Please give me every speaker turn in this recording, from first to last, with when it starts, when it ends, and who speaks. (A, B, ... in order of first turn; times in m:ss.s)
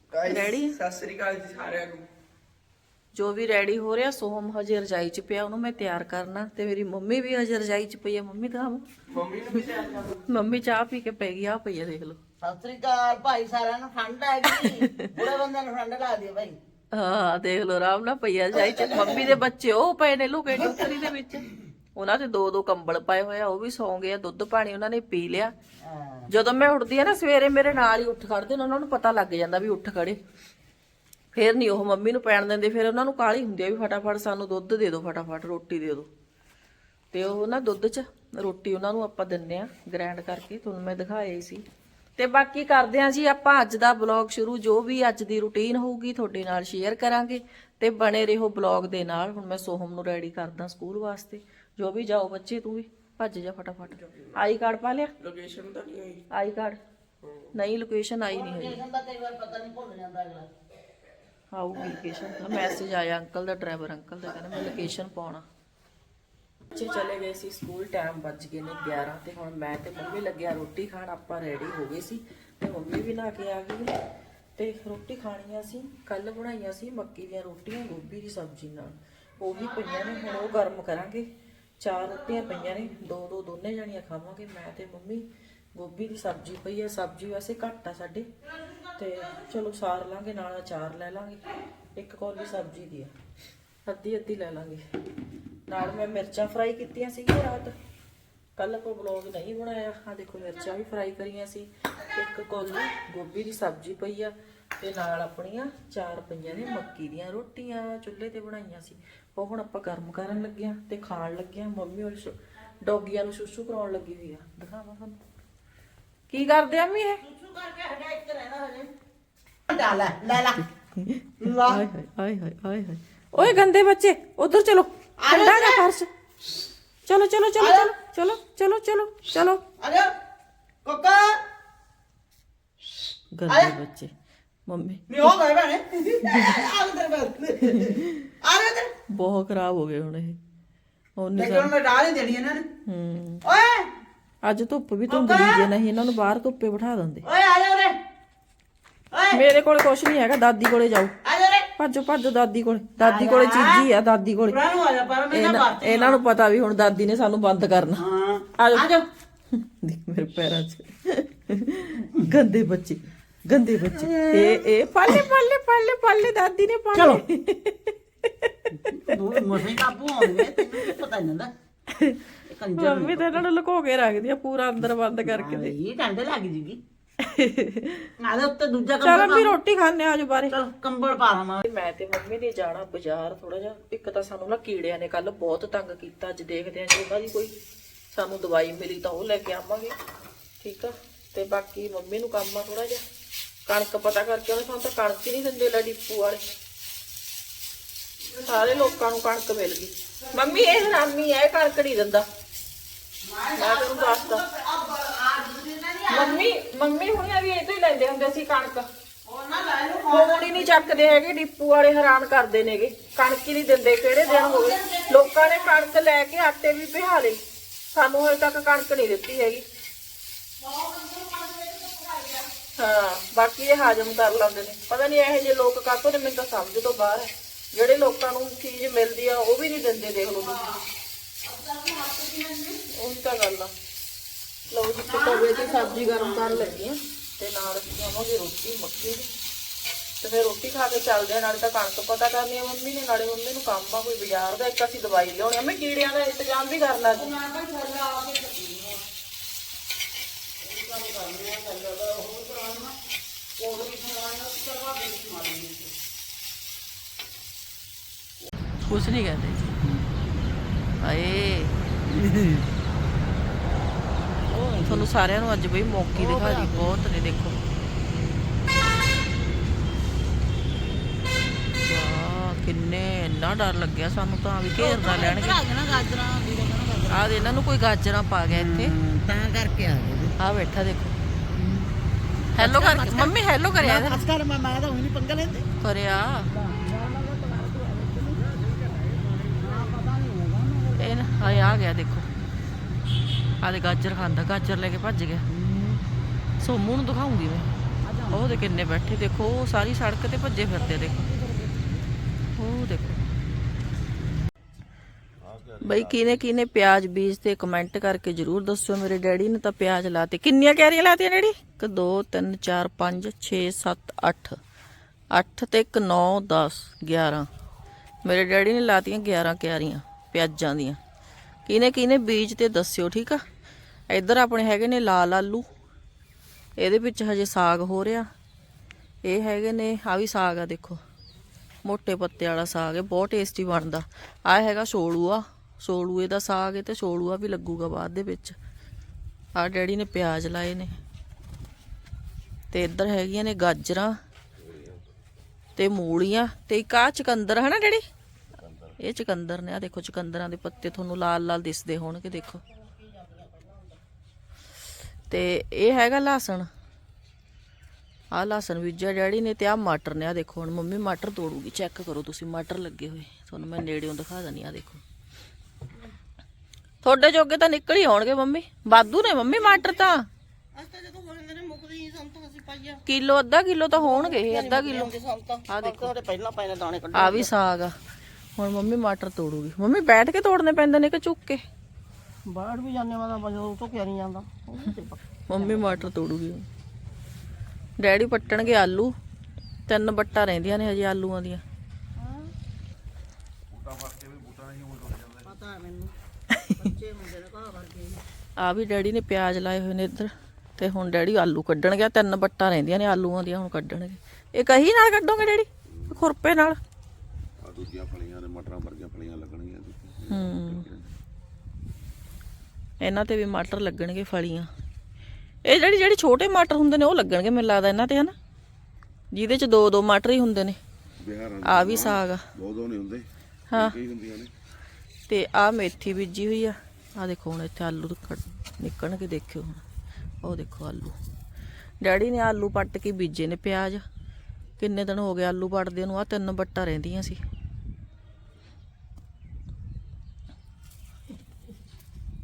0:00.1-0:02.1 A
0:00.2-0:00.8 B
0:03.1-0:08.9 B
0:09.1-0:10.2 A
0:10.1-0:12.2 B
0:12.4-0:16.6 C
0:14.6-0:15.1 B
0:16.9-0:25.5 B
0:18.7-0:19.3 C
0:25.8-0:26.3 C
0:26.3-0:30.2 B
0:31.3-0:36.1 B
0:37.1-0:41.6 B
0:42.2-0:55.1 B
0:55.2-0:56.2 A
0:56.3-0:56.8 B
0:57.2-0:57.5 A
0:57.5-0:58.8 B
0:58.3-1:00.5 C
1:01.5-1:05.4 B
1:06.7-1:13.9 B
1:14.6-1:21.3 B
1:21.8-1:28.3 B
1:29.0-1:33.1 B
1:33.9-1:34.8 B
1:35.7-1:37.7 B
1:38.6-1:55.2 B
1:56.3-1:57.2 B
1:57.2-1:58.9 C
1:59.7-2:00.7 C
2:01.0-2:06.1 B
2:01.4-2:01.8 C
2:05.2-2:05.9 C
2:07.1-2:09.6 B
2:07.6-2:07.9 C
2:09.8-2:10.1 C
2:10.8-2:11.4 C
2:13.4-2:14.1 B
2:13.5-2:13.7 C
2:14.7-2:15.3 B
2:15.1-2:18.9 C
2:16.3-2:16.6 B
2:18.0-2:18.3 B
2:19.1-2:20.4 B
2:21.2-2:21.7 B
2:21.4-2:22.7 C
2:22.9-2:23.4 B
2:23.4-2:23.9 C
2:24.4-2:27.2 B
2:25.1-2:25.7 C
2:27.2-2:28.0 C
2:29.1-2:29.4 C
2:29.3-2:31.1 B
2:31.2-2:31.7 C
2:31.8-2:34.6 B
2:33.0-2:33.9 C
2:34.5-2:36.2 C
2:35.3-2:38.1 B
2:38.0-2:39.1 C
2:38.6-2:38.9 B
2:39.5-2:48.8 B
2:43.8-2:45.2 C
2:47.0-2:47.2 C
2:48.8-2:51.5 C
2:50.2-2:50.9 B
2:51.9-2:52.2 B
2:52.5-2:53.4 C
2:52.8-2:55.8 B
2:55.2-2:56.8 C
2:57.2-2:58.1 B
2:58.2-2:59.6 C
2:59.0-3:00.6 B
3:00.5-3:01.6 C
3:01.6-3:07.5 B
3:08.1-3:09.9 B
3:10.6-3:13.0 B
3:13.7-3:16.4 B
3:18.4-3:18.9 C
3:18.4-3:22.3 B
3:20.2-3:21.0 C
3:23.2-3:26.4 C
3:23.6-3:24.4 B
3:26.1-3:28.9 B
3:29.3-3:31.1 C
3:30.1-3:37.4 B
3:34.2-3:35.8 C
3:37.9-3:39.6 B
3:40.6-3:42.5 C
3:42.8-3:50.6 B
3:50.4-3:50.8 C
3:51.4-3:52.8 C
3:52.9-3:53.7 B
3:54.7-3:59.3 B
3:55.0-3:56.8 C
4:00.2-4:07.4 B
4:07.1-4:09.0 C
4:10.6-4:13.0 C
4:13.6-4:15.9 C
4:18.8-4:19.7 B
4:21.0-4:21.8 B
4:22.1-4:22.6 C
4:24.5-4:25.0 C
4:24.8-4:27.6 B
4:26.2-4:26.9 C
4:31.8-4:35.6 B
4:34.8-4:37.6 C
4:37.1-4:39.0 B
4:38.5-4:40.3 C
4:40.4-4:41.2 B
4:41.5-4:41.9 C
4:42.6-4:44.2 B
4:42.6-4:45.7 C
4:45.8-4:46.5 B
4:46.5-4:48.6 C
4:49.5-4:51.6 C
4:51.0-4:52.3 B
4:53.6-4:55.5 B
4:55.5-4:56.0 C
4:56.6-4:57.7 B
4:58.0-4:58.6 C
4:58.3-5:01.3 B
5:00.8-5:02.0 C
5:02.6-5:03.2 B
5:05.4-5:06.4 D
5:05.8-5:14.6 B
5:15.3-5:17.5 B
5:18.2-5:21.0 B
5:21.7-5:23.4 B
5:24.1-5:25.7 B
5:26.8-5:28.3 B
5:29.2-5:31.0 B
5:31.8-5:38.6 B
5:39.6-5:40.9 B
5:42.7-5:44.2 B
5:44.6-5:45.0 D
5:45.8-5:48.0 B
5:48.6-5:48.9 D
5:49.0-5:52.6 B
5:53.2-5:53.8 C
5:55.3-5:56.7 B
5:58.3-6:05.0 B
6:07.0-6:10.3 B
6:09.2-6:10.2 C
6:10.8-6:13.0 C
6:13.0-6:15.1 B
6:14.1-6:17.4 C
6:15.7-6:16.1 B
6:17.1-6:18.0 B
6:18.6-6:21.6 B
6:22.5-6:25.9 C
6:25.5-6:26.7 B
6:28.0-6:29.2 B
6:29.9-6:31.6 B
6:32.2-6:32.5 C
6:33.7-6:35.5 D
6:35.4-6:36.1 C
6:36.7-6:38.2 C
6:38.6-6:46.8 B
6:47.6-6:51.1 D
6:50.3-6:50.9 B
6:53.0-6:54.7 B
6:55.6-6:58.3 B
6:59.3-7:00.8 B
7:01.2-7:04.5 D
7:01.6-7:02.4 B
7:03.7-7:04.0 B
7:05.3-7:09.8 B
7:10.4-7:11.2 B
7:12.0-7:14.0 B
7:14.8-7:17.4 B